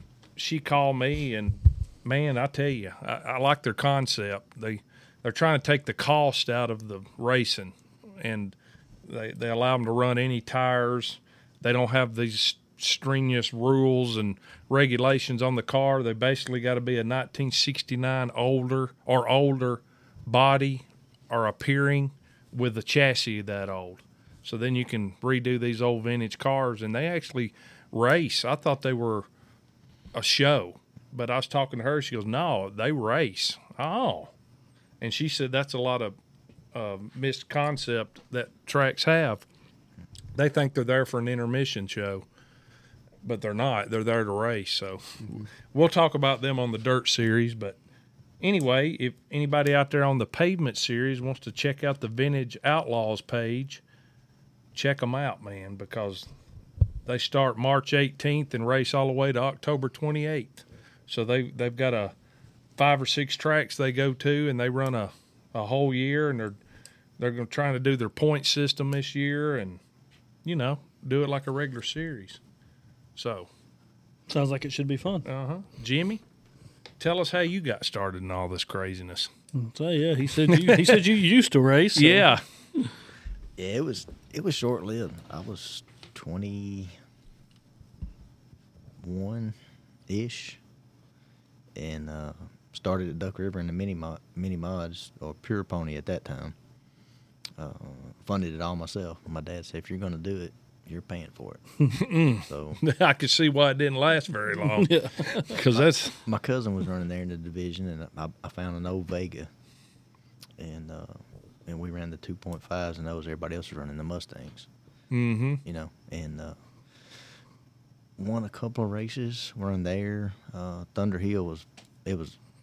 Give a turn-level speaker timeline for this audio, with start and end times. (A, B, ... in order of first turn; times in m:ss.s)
0:00.4-0:08.6 A
0:09.1-0:29.3 A
0:30.1-0:34.3 A
0:35.0-0:36.2 A
0:36.7-0:39.4 A
0:40.4-0:42.2 A
0:43.2-0:45.0 A
0:45.7-0:47.8 A
0:48.4-0:53.8 A
0:54.7-0:56.3 A
0:57.1-1:02.1 A
1:02.8-1:06.6 A
1:07.2-1:09.8 A
1:10.4-1:12.4 A
1:13.2-1:13.5 A
1:14.3-1:15.3 B
1:15.2-1:16.2 A
1:17.0-1:19.3 A
1:19.6-1:22.9 B
1:20.5-1:21.0 A
1:22.0-1:22.4 A
1:23.6-1:26.9 C
1:29.0-1:29.6 C
1:30.1-1:30.6 C
1:31.8-1:36.6 C
1:37.6-1:41.6 C
1:41.9-1:46.2 A
1:42.4-1:42.8 C
1:44.6-1:45.6 B
1:45.7-1:49.5 C
1:50.6-1:54.7 C
1:55.1-1:55.6 A
1:55.6-1:56.6 C
1:58.2-2:02.4 C